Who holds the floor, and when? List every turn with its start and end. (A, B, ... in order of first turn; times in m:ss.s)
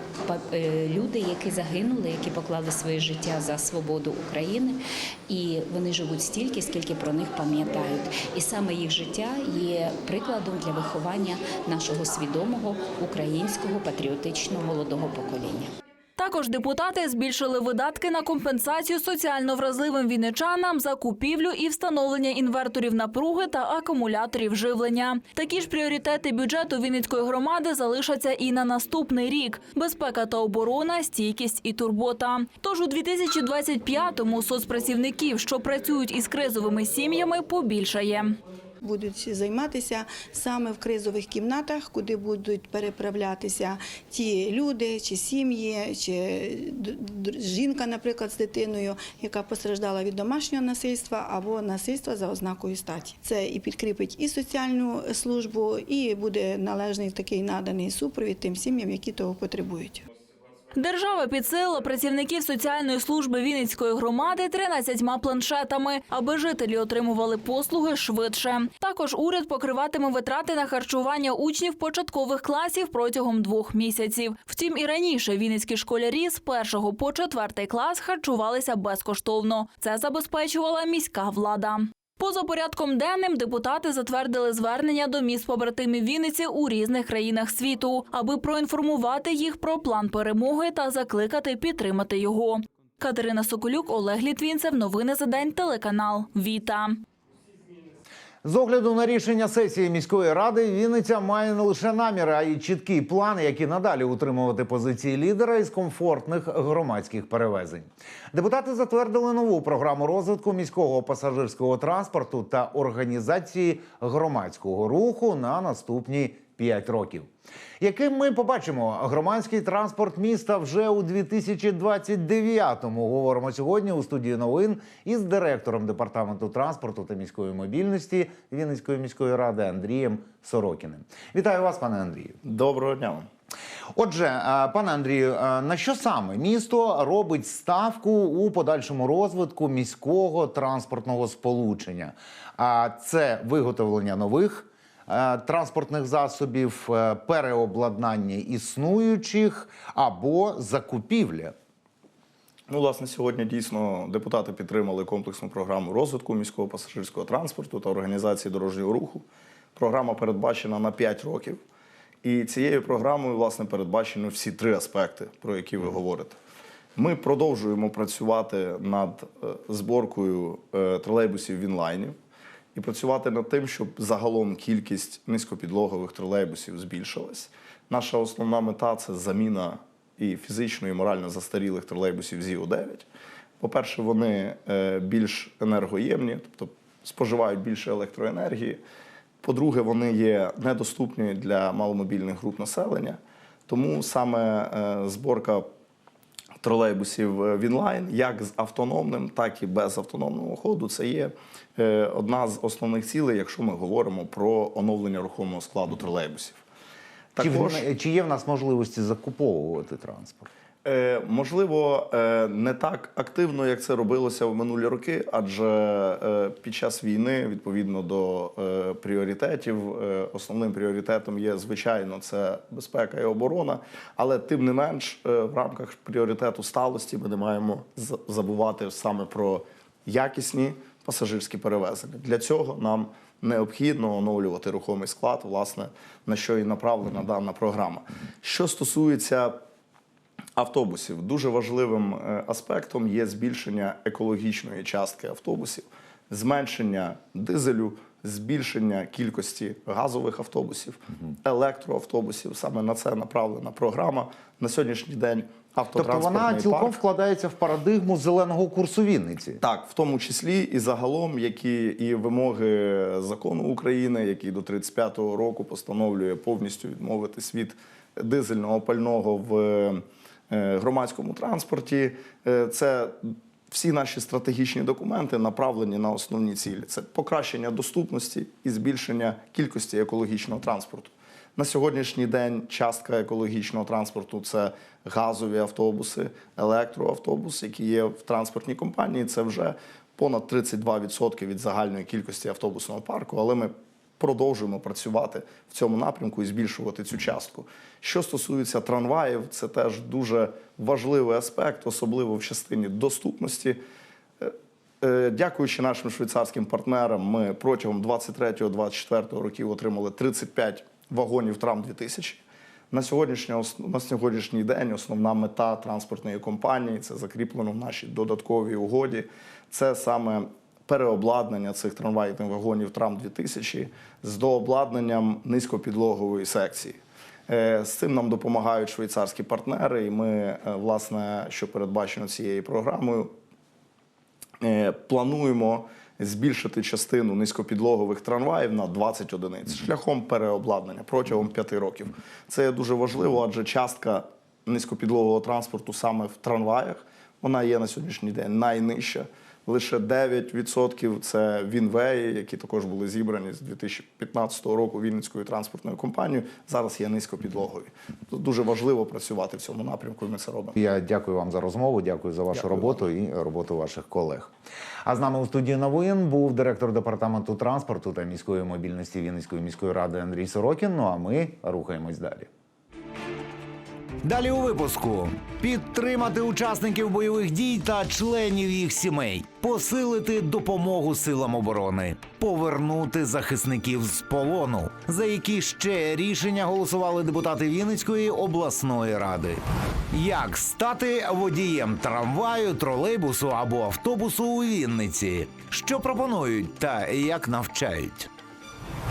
0:00.2-0:15.7 A
0:16.2-0:38.3 B
0:38.8-1:00.0 C
1:00.8-1:37.0 B
1:38.4-2:12.4 D
2:12.4-2:13.3 E
2:14.0-2:31.6 D
2:32.7-2:39.2 E
2:39.8-2:41.6 E
2:42.2-2:46.4 E
2:47.0-2:52.2 E
2:52.8-3:03.1 E
3:03.6-3:08.8 E
3:09.4-3:15.7 E
3:16.6-3:26.6 E
3:27.4-3:27.8 E
3:27.4-3:30.5 D
3:30.8-3:59.6 E
4:00.6-4:17.0 E
4:15.9-4:19.6 D
4:19.6-5:03.8 E
5:04.4-5:33.3 E
5:34.6-6:00.8 E
6:00.8-6:04.5 D
6:02.5-6:02.9 E
6:05.0-6:12.5 D
6:14.2-6:38.3 D